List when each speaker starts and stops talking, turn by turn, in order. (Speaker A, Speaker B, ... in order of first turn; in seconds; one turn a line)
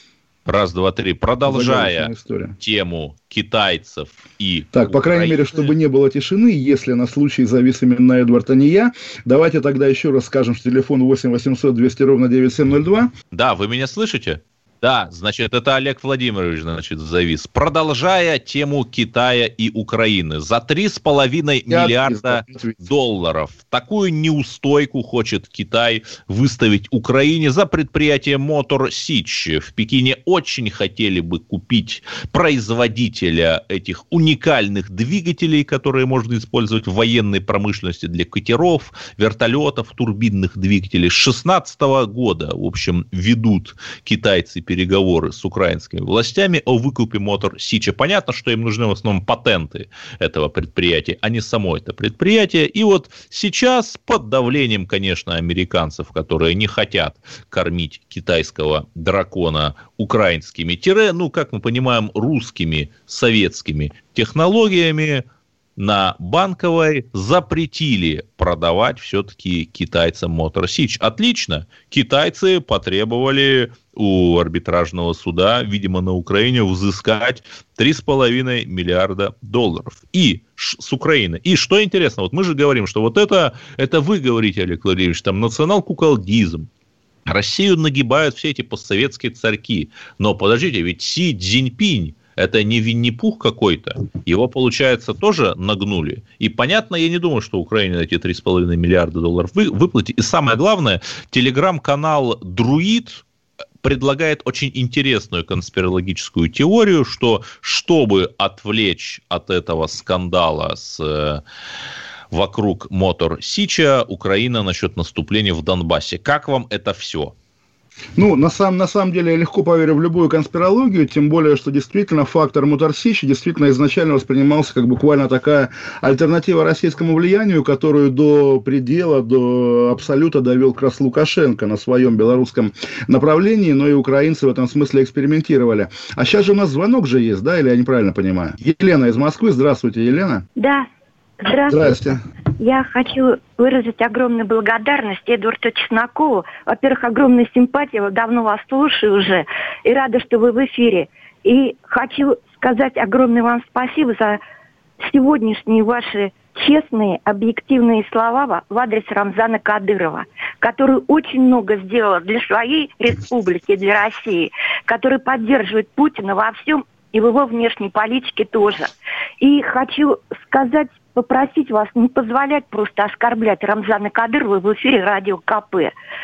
Speaker A: 0.5-5.7
Speaker B: 1.4-2.5
Speaker B: 4.7-13.1
Speaker A: 13.3-65.2
Speaker B: 21.7-22.8
Speaker A: 65.8-86.7
Speaker A: 87.2-103.2
Speaker A: 103.8-111.4
Speaker A: 112.3-117.3
Speaker B: 118.2-140.4
Speaker C: 140.6-140.8
Speaker C: 141.4-141.9
Speaker B: 141.7-142.2
Speaker C: 142.6-154.4
Speaker C: 155.0-168.9
Speaker C: 169.4-175.9